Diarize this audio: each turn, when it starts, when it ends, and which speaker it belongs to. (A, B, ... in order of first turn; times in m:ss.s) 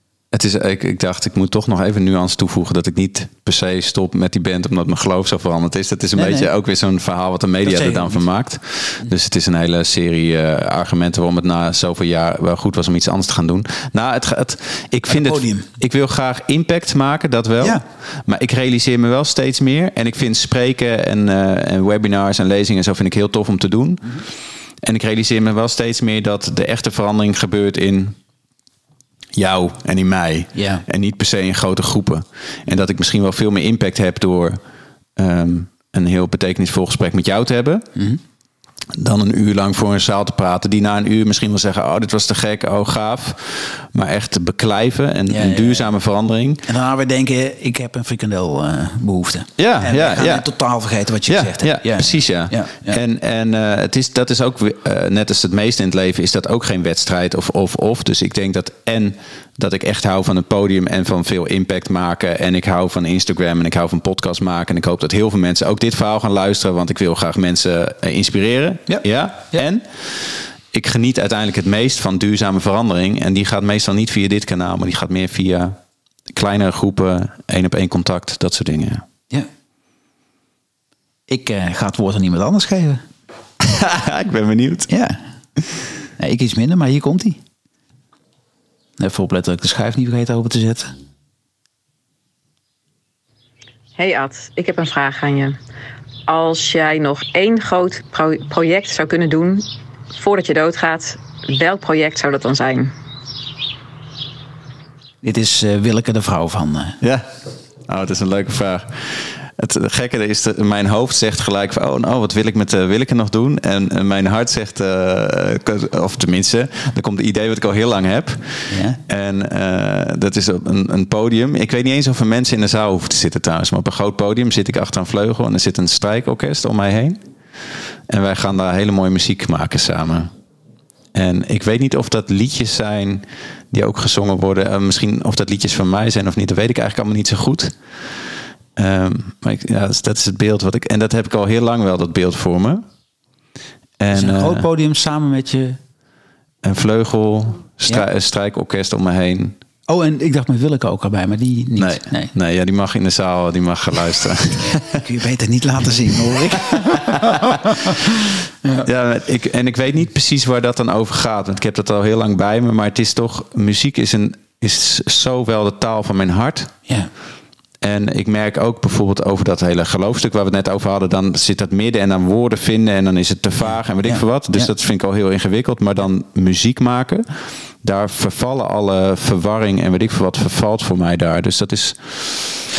0:00.3-0:24.2 A
0:06.2-0:06.5 B
0:07.6-0:08.2 B
0:15.1-0:15.6 B
0:24.8-0:28.2 A
0:29.3-0:34.6 A
0:30.5-0:30.8 B
0:35.2-0:37.8 A
0:37.9-0:38.2 B
0:38.9-0:46.6 A
0:45.3-0:45.9 B
0:46.7-0:53.0 B
0:49.6-0:50.5 A
0:51.2-1:15.8 A
1:08.9-1:09.6 B
1:16.3-1:19.0 A
1:21.3-1:23.0 B
1:23.6-1:24.9 A
1:24.9-1:25.2 B
1:26.2-1:27.4 B
1:29.0-1:30.9 B
1:34.0-1:35.6 C
1:36.3-1:42.9 C
1:45.2-1:47.0 B
1:47.0-1:47.3 A
1:47.9-2:07.2 A
1:58.7-1:59.0 B
2:08.1-2:10.3 A
2:11.1-2:17.8 A
2:18.8-2:22.8 A
2:24.0-2:24.7 A
2:24.1-2:25.8 B
2:26.6-2:29.6 A
2:29.9-2:32.3 B
2:31.8-2:35.0 A
2:34.6-2:38.9 B
2:36.3-2:37.7 A
2:38.8-2:46.7 A
2:47.8-2:57.2 A
2:54.0-2:54.7 B
2:57.8-3:02.4 A